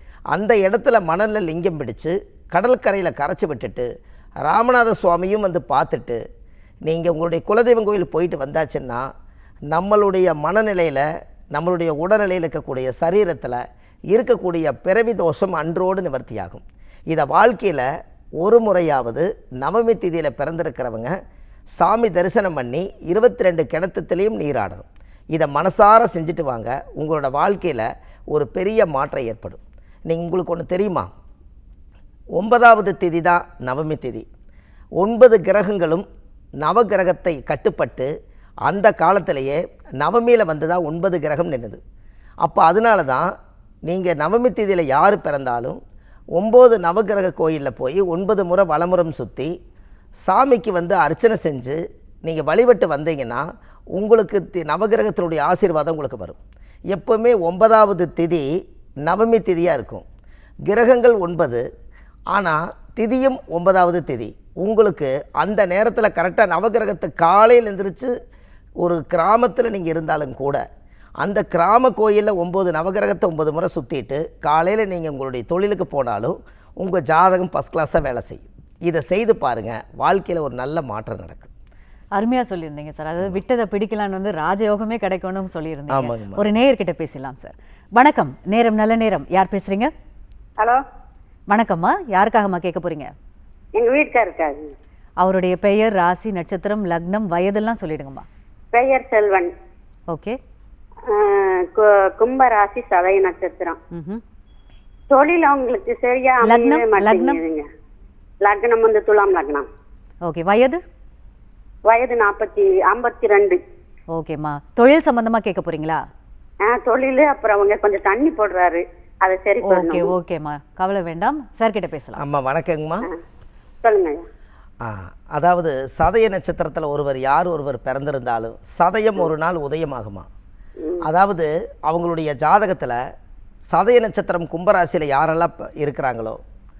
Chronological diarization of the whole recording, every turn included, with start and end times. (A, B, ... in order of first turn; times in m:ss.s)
0:00.3-0:03.9 A
0:04.4-0:06.2 A
0:06.8-0:09.1 A
0:09.7-0:13.6 A
0:14.1-0:17.9 A
0:18.4-0:21.1 A
0:21.7-0:31.1 A
0:32.4-0:34.2 A
0:35.0-0:36.0 A
0:36.6-0:38.1 A
0:38.6-0:41.8 A
0:42.4-0:43.3 A
0:43.8-0:45.8 A
0:46.4-0:49.5 A
0:50.2-0:56.4 A
0:56.9-0:58.5 A
0:59.0-1:00.0 A
1:00.6-1:01.6 A
1:02.3-1:08.1 A
1:08.8-1:10.6 A
1:11.2-1:21.5 A
1:22.1-1:29.9 B
1:25.9-1:26.4 A
1:31.5-1:33.1 B
1:33.8-1:34.7 C
1:35.2-1:38.2 B
1:38.7-1:39.5 C
1:40.1-1:40.4 B
1:41.1-1:43.8 C
1:43.9-1:44.2 B
1:45.1-1:47.6 C
1:46.4-1:47.4 B
1:48.4-1:49.7 C
1:50.2-1:50.8 B
1:51.8-1:53.6 C
1:54.1-1:56.0 B
1:56.6-2:00.1 C
1:59.6-2:02.2 B
2:02.2-2:03.1 A
2:03.8-2:04.2 C
2:04.8-2:10.3 A
2:10.8-2:11.0 C
2:11.0-2:13.0 A
2:13.7-2:16.4 A